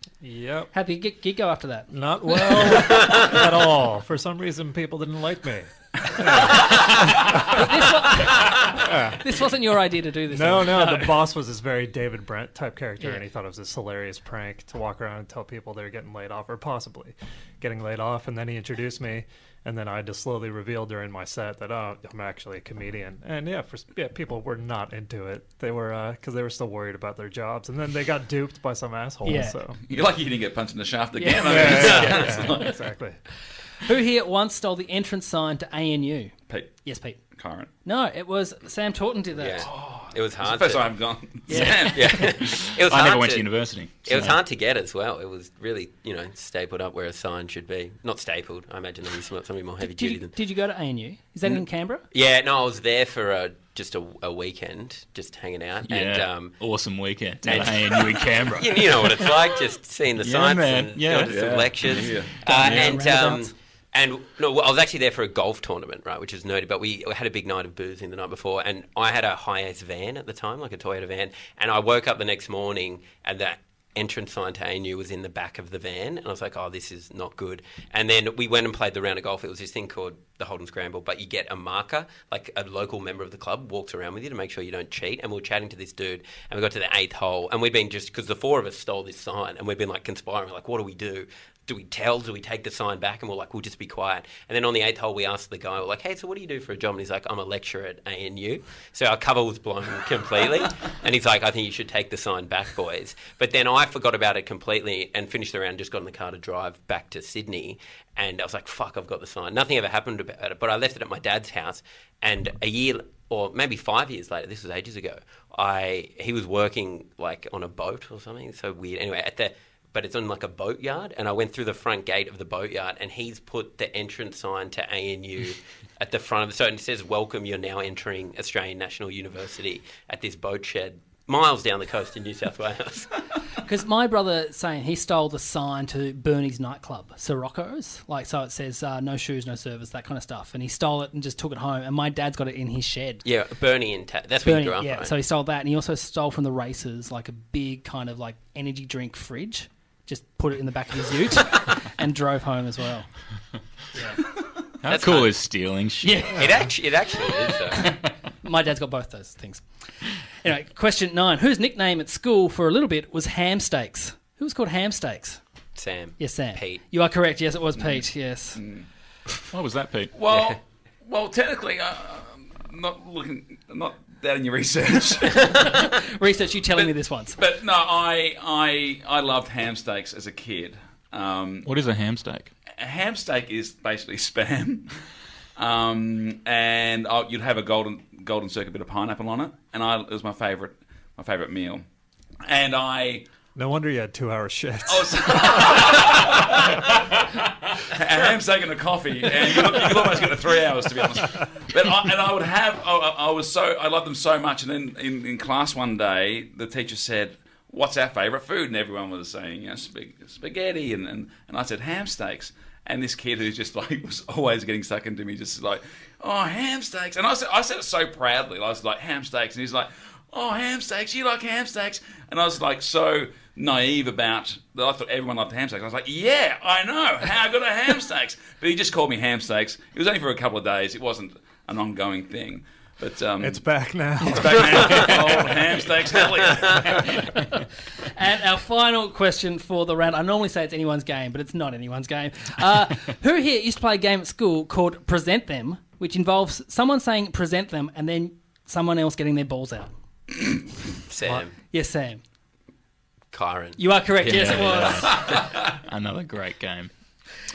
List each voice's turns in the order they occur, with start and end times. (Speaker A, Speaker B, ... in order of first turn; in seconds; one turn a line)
Speaker A: 0.2-0.7
Speaker B: 0.7-1.9
Speaker A: 1.9-7.6
Speaker B: 7.5-11.3
Speaker A: 8.8-9.2
Speaker A: 10.3-29.8
Speaker B: 29.2-29.6
Speaker C: 29.8-32.8
Speaker B: 31.2-32.7
Speaker A: 31.4-33.2
Speaker D: 31.6-32.3
Speaker B: 33.8-37.2
Speaker C: 36.5-36.8
Speaker C: 37.3-37.7
Speaker B: 37.8-39.6
Speaker D: 39.4-40.9
Speaker C: 39.6-42.2
Speaker B: 41.5-42.1
Speaker E: 41.5-44.4
Speaker D: 41.9-50.3
Speaker B: 49.8-52.0
Speaker D: 52.1-56.6
Speaker E: 55.8-59.4
Speaker D: 57.4-133.1
Speaker E: 60.2-63.1
Speaker C: 61.3-62.4
Speaker B: 62.4-63.5
Speaker B: 133.6-143.2
Speaker D: 143.2-145.1
Speaker B: 144.4-153.1
Speaker E: 154.8-156.4
Speaker D: 154.8-155.3
Speaker B: 156.0-156.6
Speaker D: 156.4-157.8
Speaker B: 157.2-159.6
Speaker B: 160.4-165.4
Speaker D: 165.8-166.8
Speaker B: 166.2-168.6
Speaker C: 168.6-168.8
Speaker E: 169.5-170.1
Speaker C: 170.1-175.9
Speaker B: 175.5-177.4
Speaker C: 176.7-181.7
Speaker E: 181.7-182.5
Speaker C: 182.8-184.9
Speaker C: 185.6-191.8
Speaker C: 192.4-193.3
Speaker A: 193.6-195.5
Speaker C: 194.9-197.2
Speaker C: 197.8-233.7
Speaker A: 233.4-235.1
Speaker C: 234.2-237.2
Speaker B: 238.1-249.9
Speaker D: 251.1-251.5
Speaker B: 251.7-252.2
Speaker D: 253.3-255.3
Speaker B: 253.8-255.2
Speaker E: 254.2-256.9